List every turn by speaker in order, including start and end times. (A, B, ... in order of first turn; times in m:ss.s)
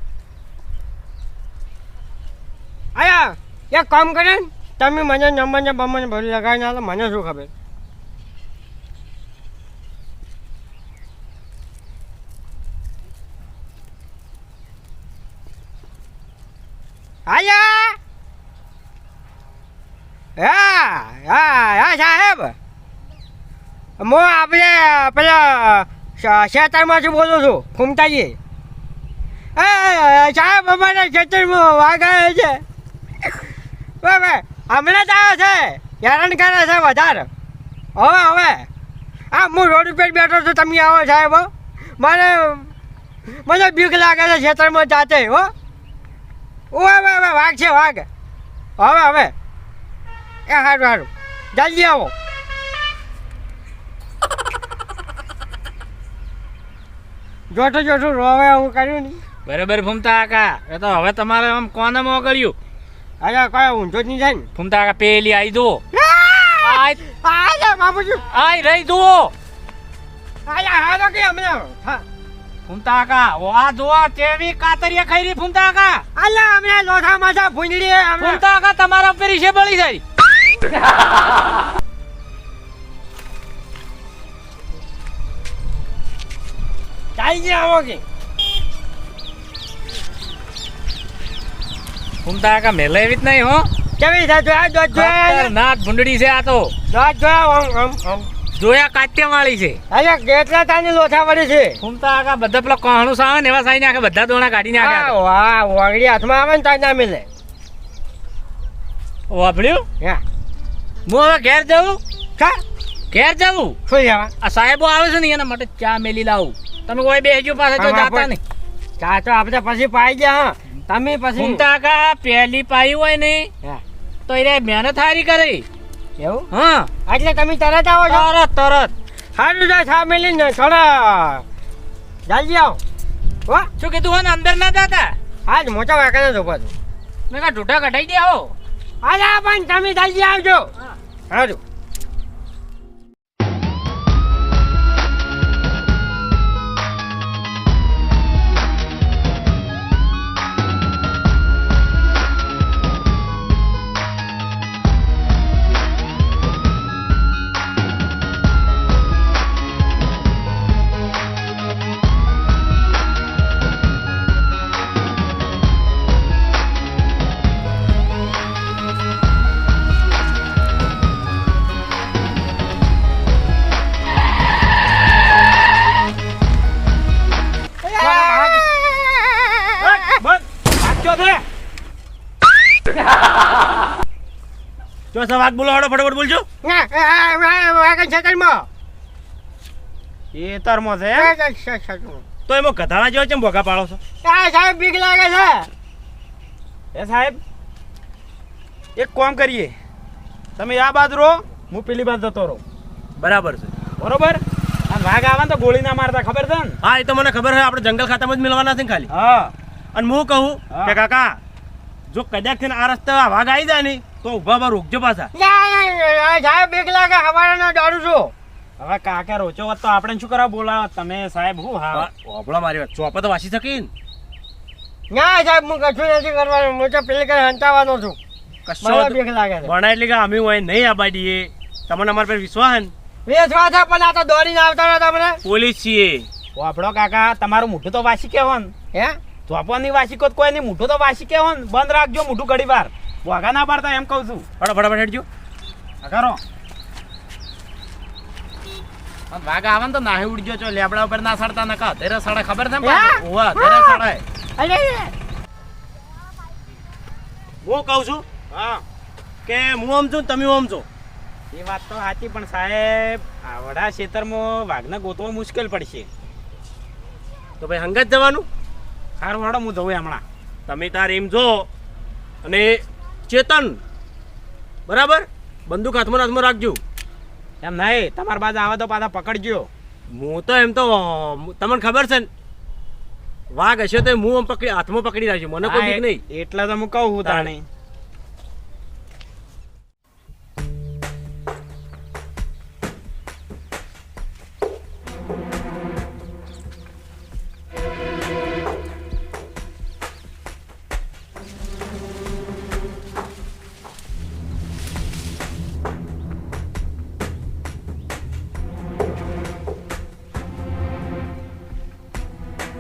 0:03.0-0:07.5 A
0:17.3-0:18.0 A
0:20.4-0:22.6 A
0:24.0-0:28.4 A
0:29.6-0:32.6 A
0:34.0-0:37.3 A
0:38.0-0:38.7 A
0:39.3-0:42.7 A
0:43.4-0:45.5 A
0:46.7-0:48.1 A
0:48.8-0:49.3 A
0:50.5-0:52.1 A
0:57.5-0:59.2 A
0:59.5-1:02.6 B
1:03.2-1:04.5 A
1:04.6-1:05.8 B
1:05.9-1:08.2 A
1:06.6-1:07.0 B
1:08.3-1:09.3 B
1:10.5-1:12.0 A
1:12.7-1:16.0 B
1:16.2-1:18.4 A
1:18.2-1:20.0 B
1:27.2-1:28.0 A
1:32.2-1:33.7 B
1:34.0-1:35.5 A
1:34.9-1:36.7 B
1:36.9-1:38.3 A
1:38.6-1:39.8 B
1:39.9-1:41.8 A
1:41.8-1:45.2 B
1:44.7-1:47.3 A
1:49.3-1:49.9 B
1:51.1-1:52.0 B
1:53.1-1:53.8 B
1:53.9-1:54.3 A
1:54.4-1:58.4 B
1:57.8-1:58.3 A
1:59.0-2:01.6 A
2:01.4-2:03.5 B
2:04.3-2:05.7 B
2:06.2-2:06.5 A
2:06.5-2:06.9 B
2:07.1-2:08.2 A
2:08.1-2:08.9 B
2:09.4-2:11.4 A
2:12.2-2:12.8 A
2:13.8-2:15.2 B
2:15.5-2:16.7 A
2:17.3-2:18.5 B
2:19.0-2:20.7 A
2:21.3-2:21.6 A
2:57.8-3:00.2 A
2:58.0-2:58.7 C
2:59.8-3:01.4 C
3:05.1-3:06.4 D
3:06.6-3:08.7 A
3:10.3-3:11.3 C
3:11.2-3:12.2 A
3:12.5-3:14.0 D
3:14.2-3:15.7 A
3:16.9-3:17.4 C
3:19.0-3:19.7 C
3:20.6-3:22.6 C
3:23.2-3:23.7 D
3:24.0-3:26.8 C
3:26.8-3:29.1 D
3:29.1-3:29.5 C
3:29.9-3:31.4 D
3:30.7-3:31.0 C
3:32.1-3:35.3 D
3:35.3-3:38.3 A
3:38.8-3:42.1 C
3:41.9-3:43.9 D
3:45.1-3:48.2 A
3:48.7-3:52.9 D
3:48.8-3:49.7 A
3:53.2-3:55.4 A
3:55.4-3:56.3 D
3:56.6-3:58.7 C
3:58.9-3:59.2 A
3:59.5-4:04.5 C
4:04.6-4:05.2 D
4:06.0-4:06.4 C
4:09.3-4:14.2 C
4:12.8-4:14.0 A
4:14.6-4:15.1 A
4:17.6-4:18.2 D
4:18.5-4:18.8 C
4:19.4-4:20.9 D
4:21.5-4:26.1 C
4:27.6-4:28.4 D
4:29.2-4:30.2 C
4:30.7-4:31.7 D
4:32.4-4:33.8 D
4:34.9-4:36.8 D
4:37.6-4:39.7 C
4:40.1-4:42.3 D
4:43.5-4:46.2 D
4:45.6-4:47.6 C
4:47.2-4:47.5 D